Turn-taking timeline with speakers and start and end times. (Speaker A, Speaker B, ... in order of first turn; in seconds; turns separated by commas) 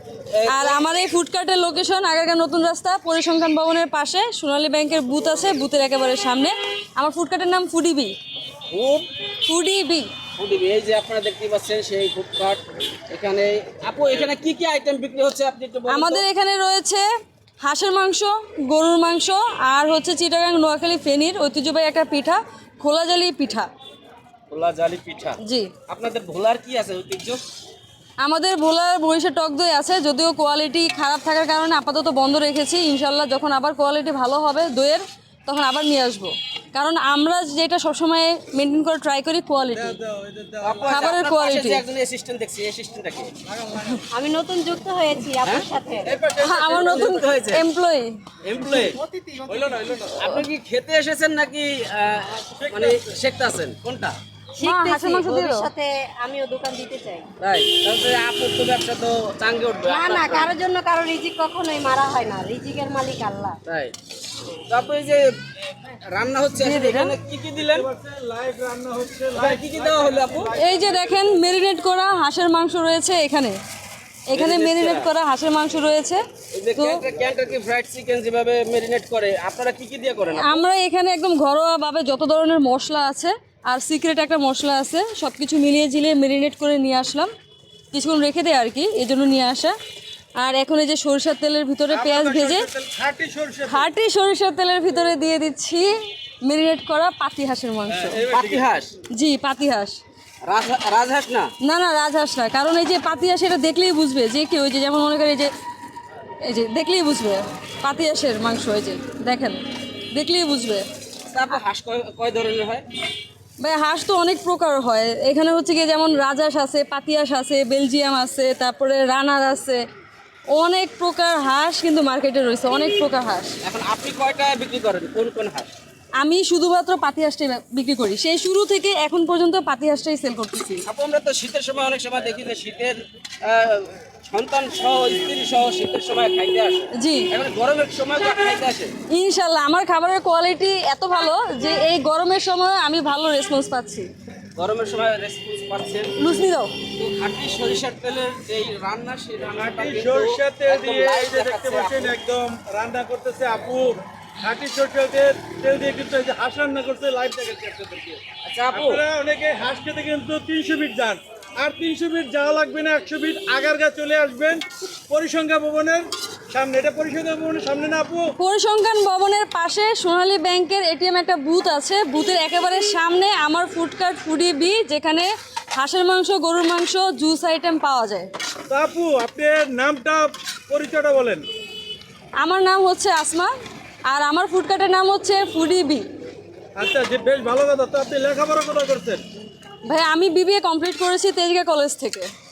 Speaker A: 0.3-0.9, Speaker B: 0.5-8.2, Speaker A: 8.7-9.1, Speaker B: 9.4-10.1, Speaker A: 10.3-16.2, Speaker B: 15.9-17.1, Speaker B: 17.6-23.7, Speaker A: 24.5-27.4, Speaker B: 25.4-25.7, Speaker B: 28.2-40.0, Speaker C: 39.7-41.1, Speaker A: 40.6-43.3, Speaker B: 40.9-41.8, Speaker C: 43.5-44.0, Speaker D: 44.1-46.1, Speaker A: 45.4-45.7, Speaker C: 46.0-47.2, Speaker B: 46.4-48.2, Speaker A: 46.7-47.6, Speaker A: 48.4-49.0, Speaker C: 49.3-50.3, Speaker A: 50.2-54.2, Speaker C: 52.5-53.2, Speaker D: 54.5-57.3, Speaker B: 54.6-55.7, Speaker A: 57.4-60.6, Speaker D: 59.8-63.6, Speaker A: 63.7-64.0, Speaker A: 64.7-67.9, Speaker B: 66.6-67.2, Speaker C: 67.6-71.5, Speaker A: 69.3-70.5, Speaker B: 70.5-73.6, Speaker B: 74.3-76.2, Speaker A: 74.3-75.1, Speaker A: 76.5-80.6, Speaker B: 76.8-77.0, Speaker B: 80.4-87.3, Speaker B: 87.9-89.8, Speaker B: 90.4-92.7, Speaker C: 91.9-93.9, Speaker B: 93.7-95.9, Speaker B: 96.4-98.2, Speaker C: 97.9-98.7, Speaker A: 98.3-98.9, Speaker B: 99.1-100.0, Speaker A: 100.5-101.5, Speaker B: 101.6-105.5, Speaker B: 106.4-109.6, Speaker B: 110.1-110.8, Speaker A: 111.3-112.9, Speaker B: 113.6-119.8, Speaker B: 120.5-123.6, Speaker A: 123.7-125.7, Speaker B: 126.2-130.8, Speaker A: 130.9-138.9, Speaker B: 137.0-137.3, Speaker B: 139.1-144.1, Speaker A: 144.6-146.2, Speaker B: 146.2-146.7, Speaker A: 147.0-152.2, Speaker C: 149.6-168.3, Speaker A: 158.4-159.0, Speaker B: 168.4-178.3, Speaker C: 178.7-181.5, Speaker B: 182.4-183.5, Speaker B: 184.1-186.1, Speaker C: 186.8-189.2, Speaker B: 189.8-192.3